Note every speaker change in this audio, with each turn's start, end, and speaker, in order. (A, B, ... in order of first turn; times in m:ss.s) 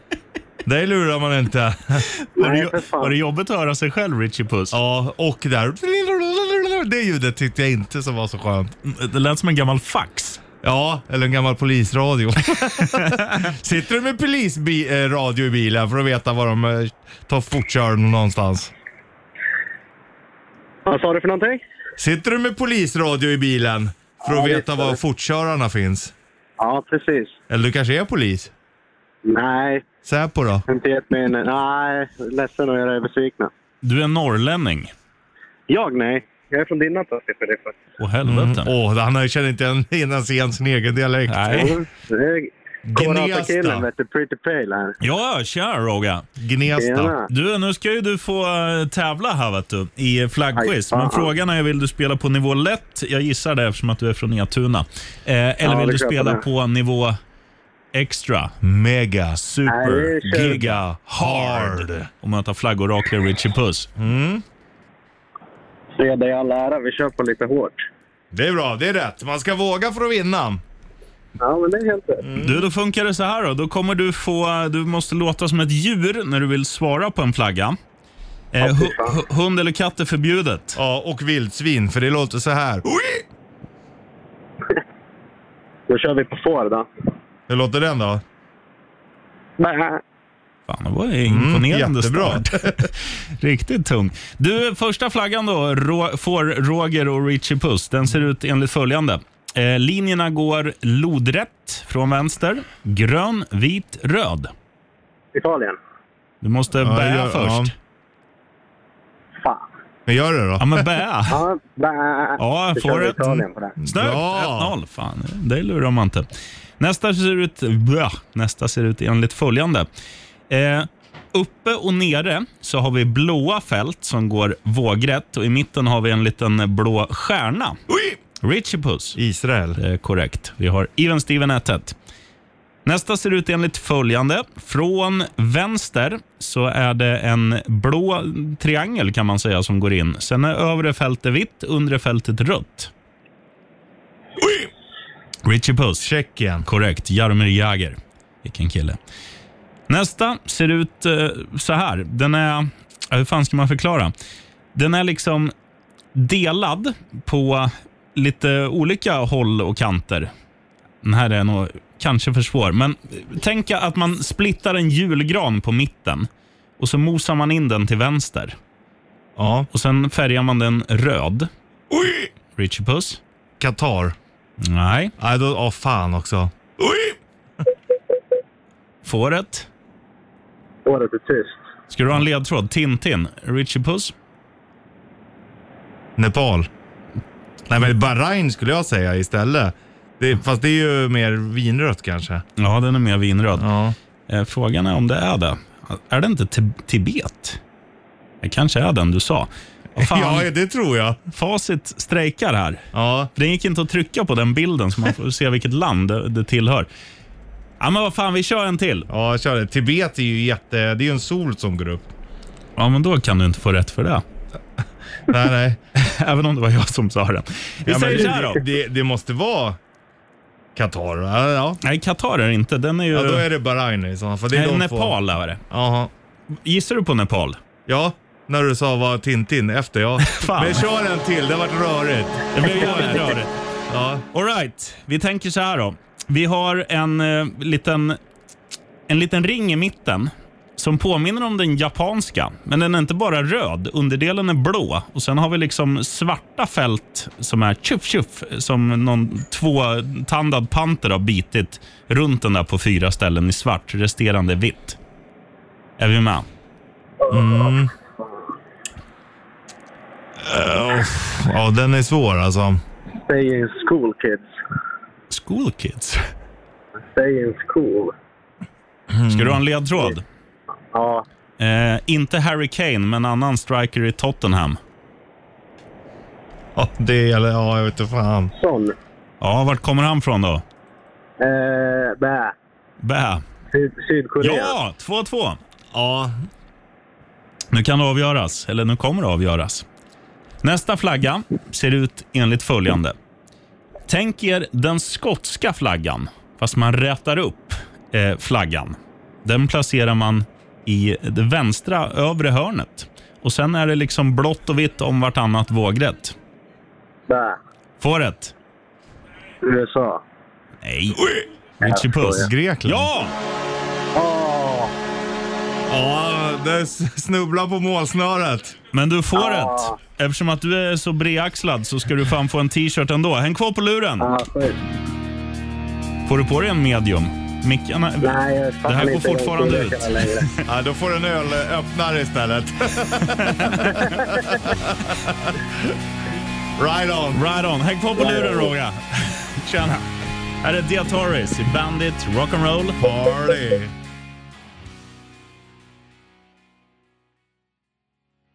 0:00.6-0:02.1 A
0:02.2-0:04.8 B
0:02.4-0:03.1 C
0:04.7-0:08.7 A
0:08.8-0:10.4 B
0:10.6-0:18.7 A
0:20.8-0:21.6 C
0:22.0-0:26.1 A
0:24.2-0:25.0 C
0:26.6-0:27.4 C
0:27.5-0:28.5 A
0:29.2-0:29.8 C
0:30.0-0:30.6 A
0:30.7-0:33.5 C
0:33.8-0:34.9 B
0:35.7-0:37.8 C
0:38.0-0:38.7 B
0:38.2-0:41.8 A
0:41.3-0:41.8 B
0:41.5-0:45.0 C
0:42.8-0:43.9 A
0:45.0-0:46.3 B
0:46.4-0:47.2 A
0:46.8-0:47.3 C
0:47.3-0:57.2 B
0:50.5-0:51.3 C
0:55.6-0:56.4 C
0:57.9-0:58.5 B
0:58.6-0:59.4 A
0:59.4-1:03.9 B
0:59.7-1:00.6 C
1:00.5-1:02.1 A
1:04.0-1:04.4 A
1:06.0-1:07.8 C
1:08.3-1:10.6 A
1:11.4-1:12.2 C
1:12.2-1:12.7 A
1:12.4-1:17.8 B
1:18.5-1:20.8 B
1:18.6-1:19.2 C
1:20.7-1:23.2 A
1:25.9-1:26.9 C
1:27.5-1:28.2 A
1:29.6-1:30.0 C
1:30.7-1:44.5 B
1:31.2-1:32.9 A
1:45.3-1:45.8 C
1:46.4-1:47.7 B
1:46.8-1:47.7 A
1:49.4-1:49.7 C
1:50.0-1:50.8 A
1:50.6-1:51.4 B
1:51.3-1:53.7 C
1:52.4-1:59.9 B
1:53.8-1:54.7 A
2:00.5-2:07.8 B
2:07.9-2:08.2 A
2:08.4-2:09.2 B
2:09.2-2:09.8 A
2:09.8-2:12.0 B
2:12.8-2:22.9 B
2:25.4-2:26.1 B
2:26.0-2:26.7 A
2:26.6-2:29.0 B
2:29.9-2:34.1 B
2:34.7-2:35.5 B
2:36.1-2:40.3 B
2:41.0-2:46.3 B
2:46.8-2:48.6 B
2:49.4-2:49.7 A
2:49.7-2:51.5 B
2:51.9-2:52.3 A
2:52.6-2:53.2 B
2:53.6-2:54.2 A
2:54.6-2:55.1 B
2:55.2-2:57.2 A
2:59.0-2:59.7 B
3:00.8-3:01.6 C
3:01.9-3:04.1 B
3:06.2-3:06.7 A
3:07.7-3:12.4 A
3:12.6-3:13.7 B
3:13.6-3:13.9 A
3:14.3-3:17.6 B
3:18.4-3:20.5 B
3:20.0-3:21.2 A
3:21.3-3:26.9 B
3:22.9-3:23.3 A
3:27.8-3:29.1 B
3:29.1-3:32.1 A
3:32.8-3:34.2 B
3:35.3-3:35.8 A
3:36.0-3:38.6 B
3:37.8-3:39.8 A
3:40.8-3:41.8 A
3:41.8-3:43.5 B
3:43.1-3:45.1 A
3:44.5-3:45.6 B
3:45.7-3:46.1 A
3:46.6-3:47.6 B
3:47.9-3:54.2 A
3:50.2-3:50.9 B
3:52.5-3:53.5 B
3:54.3-3:58.2 B
3:59.1-4:15.0 B
4:16.0-4:16.4 B
4:17.2-4:17.8 C
4:17.3-4:17.9 A
4:20.4-4:22.8 A
4:23.2-4:24.5 C
4:25.3-4:26.2 B
4:27.1-4:28.1 C
4:29.1-4:29.6 A
4:29.3-4:30.2 B
4:30.9-4:31.2 C
4:31.6-4:34.8 B
4:36.8-4:38.5 A
4:38.5-4:39.0 C
4:39.4-4:40.6 B
4:41.4-4:42.5 C
4:43.0-4:43.4 B
4:43.7-4:44.7 C
4:44.4-4:45.6 B
4:45.9-4:46.3 A
4:47.7-4:49.8 B
4:50.6-4:53.1 B
4:54.1-5:06.3 B
5:07.3-5:07.6 C
5:08.0-5:08.5 B
5:09.6-5:10.2 C
5:10.8-5:11.3 B
5:11.8-5:13.3 B
5:11.8-5:12.5 C
5:12.4-5:13.1 A
5:14.1-5:14.9 C
5:15.9-5:18.8 A
5:18.9-5:24.3 B
5:19.3-5:20.0 C
5:24.2-5:24.8 C
5:26.2-5:30.6 B
5:28.2-5:30.5 C
5:30.6-5:35.9 A
5:33.4-5:34.1 B
5:36.8-5:37.4 A
5:37.3-5:40.0 B
5:38.2-5:38.7 C
5:40.6-5:43.0 B
5:43.0-5:43.9 A